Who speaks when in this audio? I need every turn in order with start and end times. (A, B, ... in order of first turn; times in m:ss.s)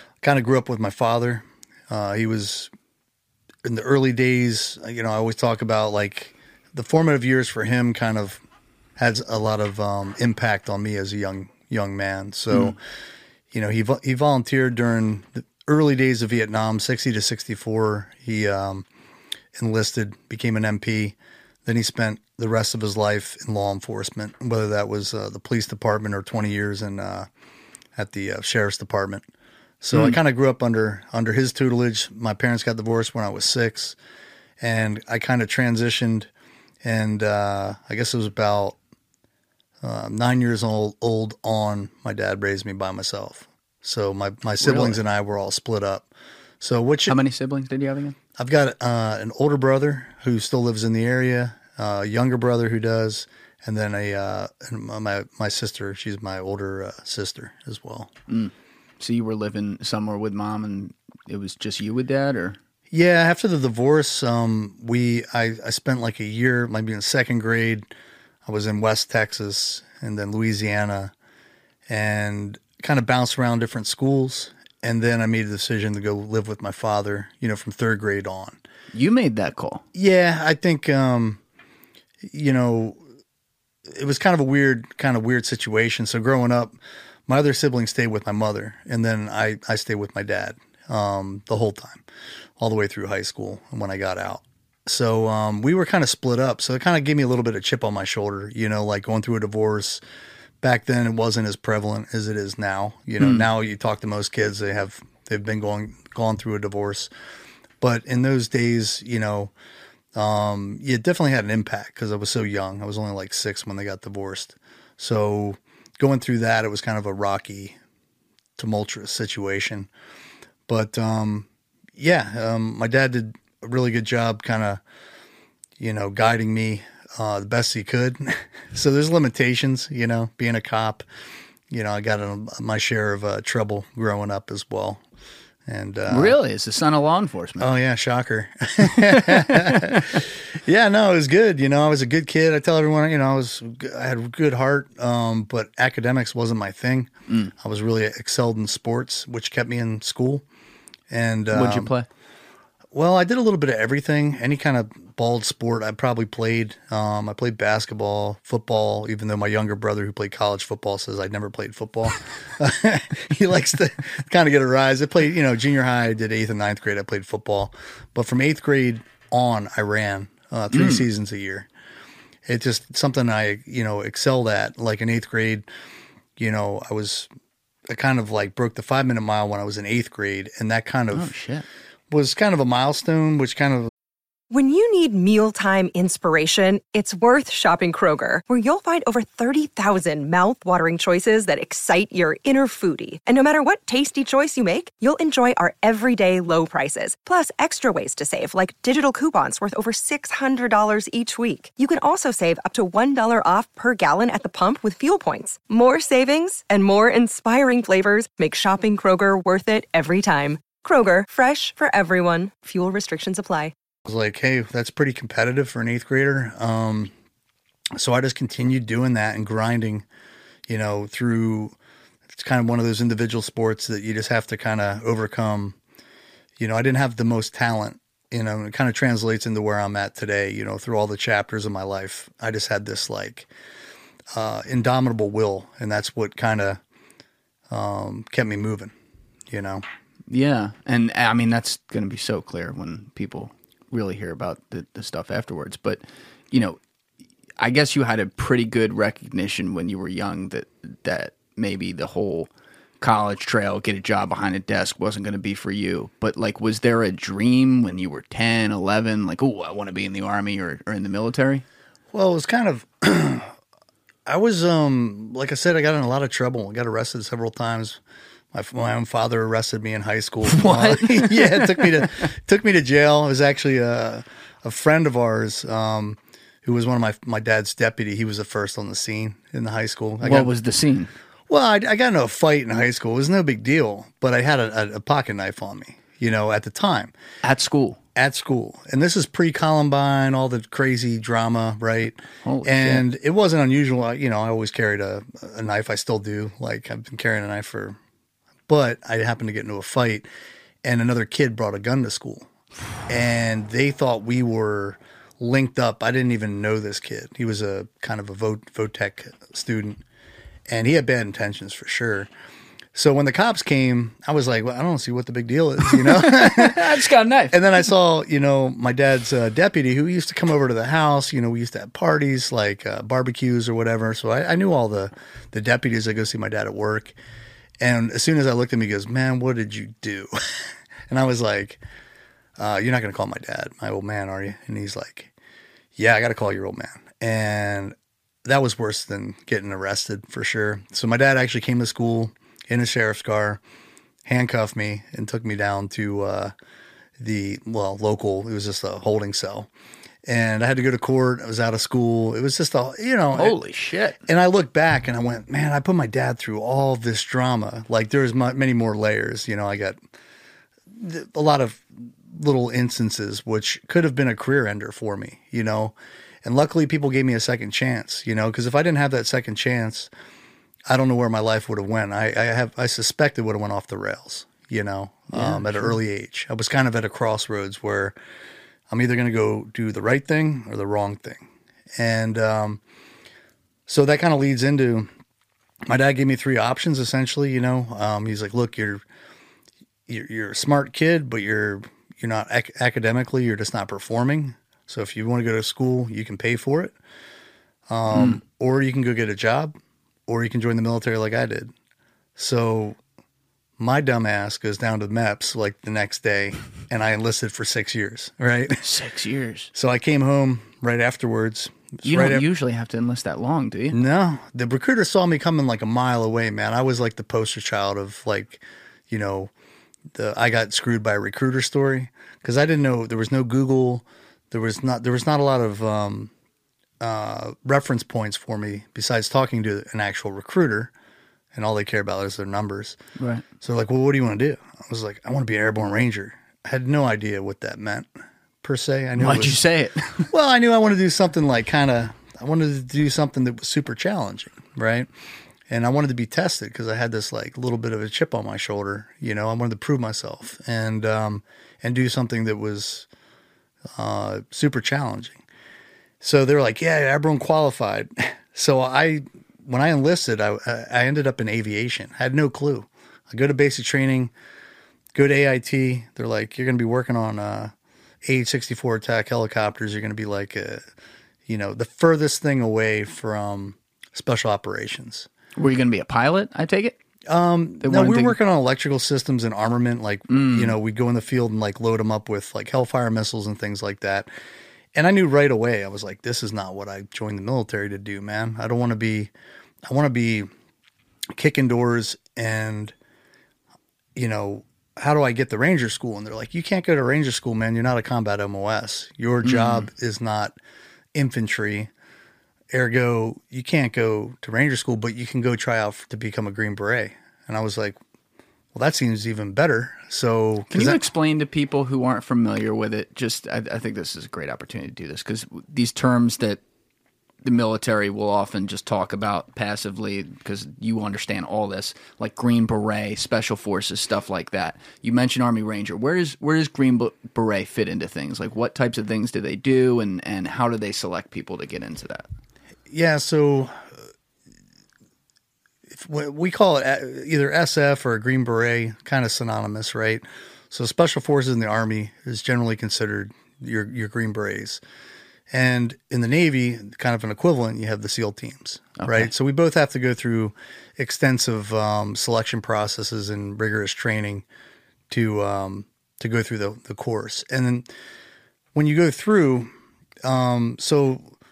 0:00.2-0:02.7 A
0:03.6-0:08.4 A
0:09.0-0:12.8 A
0:13.5-0:18.8 A
0:19.6-0:27.3 A
0:28.0-0:29.2 A
0:29.8-0:34.0 A
0:29.9-0:30.2 B
0:34.6-0:36.3 A
0:36.8-0:38.8 A
0:39.8-0:46.1 A
0:44.6-0:45.0 B
0:46.6-0:47.2 A
0:47.1-0:48.2 B
0:48.4-0:58.1 A
0:58.3-1:02.6 B
1:02.9-1:07.9 A
1:08.5-1:11.1 A
1:11.9-1:18.6 A
1:18.9-1:19.8 B
1:19.9-1:21.4 A
1:22.2-1:23.0 A
1:23.9-1:26.8 A
1:27.3-1:32.0 A
1:32.6-1:40.0 A
1:40.6-1:47.1 A
1:43.2-1:43.5 B
1:47.8-1:49.5 A
1:50.2-1:57.8 A
1:58.6-1:59.9 A
2:00.7-2:04.8 A
2:05.8-2:11.0 A
2:11.7-2:15.0 A
2:15.7-2:16.4 A
2:16.1-2:17.7 B
2:17.6-2:30.4 A
2:18.8-2:20.0 B
2:27.3-2:27.5 B
2:31.1-2:31.9 A
2:31.5-2:32.1 B
2:32.9-2:51.7 A
2:50.7-2:51.1 B
2:52.5-2:55.7 A
2:56.4-2:57.3 A
2:57.9-3:01.3 A
3:01.1-3:01.6 B
3:02.1-3:03.9 A
3:04.5-3:33.7 C
3:34.0-3:37.1 A
3:38.0-3:40.0 A
3:40.7-3:41.7 A
3:42.3-3:45.8 A
3:46.6-3:53.5 A
3:54.3-3:56.8 A
3:57.7-3:58.9 A
3:59.5-3:59.8 A
4:00.3-4:06.8 B
4:07.6-4:12.5 B
4:13.0-4:21.6 B
4:22.1-4:23.5 A
4:24.3-4:28.0 A
4:28.5-4:40.5 A
4:30.5-4:32.1 B
4:40.2-4:41.1 B
4:41.5-4:47.1 A
4:47.4-4:48.0 B
4:48.2-4:58.0 A
4:52.4-4:53.0 B
4:58.7-5:00.2 A
5:00.8-5:02.5 A
5:03.1-5:10.0 A
5:10.7-5:12.3 A
5:13.0-5:17.0 A
5:15.9-5:17.6 B
5:17.5-5:27.1 A
5:27.8-5:31.8 A
5:32.6-5:35.3 A
5:36.0-5:43.6 A
5:44.2-5:46.5 A
5:47.2-5:49.7 A
5:50.2-5:53.6 A
5:53.4-5:54.2 B
5:54.3-6:00.0 A
6:00.9-6:10.1 A
6:10.9-6:18.1 A
6:15.3-6:16.0 B
6:18.9-6:21.4 A
6:22.0-6:22.8 A
6:23.9-6:25.1 A
6:25.9-6:29.0 A
6:30.1-6:37.0 A
6:37.9-6:39.8 A
6:38.1-6:38.4 B
6:40.3-6:41.7 A
6:42.4-6:43.0 A
6:43.8-6:48.8 A
6:48.8-6:49.7 B
6:49.7-6:52.5 A
6:52.0-6:54.0 B
6:53.9-6:59.5 A
7:00.1-7:06.3 A
7:07.0-7:10.9 A
7:11.5-7:13.0 A
7:13.2-7:13.4 B
7:13.6-7:18.1 A
7:18.6-7:19.6 A
7:19.2-7:20.3 B
7:20.3-7:25.1 A
7:25.7-7:33.1 A
7:34.0-7:35.4 A
7:36.2-7:44.3 A
7:45.1-7:47.7 A
7:48.2-7:50.8 A
7:51.5-7:55.3 A
7:55.6-7:57.0 B
7:57.3-8:04.3 A
7:57.8-7:58.4 B
8:00.3-8:00.8 B
8:05.0-8:09.3 A
8:09.8-8:10.5 A
8:11.4-8:12.9 A
8:14.2-8:20.6 A
8:19.4-8:19.9 B
8:21.1-8:21.9 A
8:22.7-8:28.0 A
8:28.8-8:31.0 A
8:30.7-8:36.6 B
8:37.4-8:52.3 B
8:52.9-8:53.9 A
8:55.9-9:04.8 A
9:05.5-9:14.4 A
9:09.0-9:09.3 B
9:15.1-9:17.9 A
9:18.8-9:19.7 A
9:20.2-9:21.3 A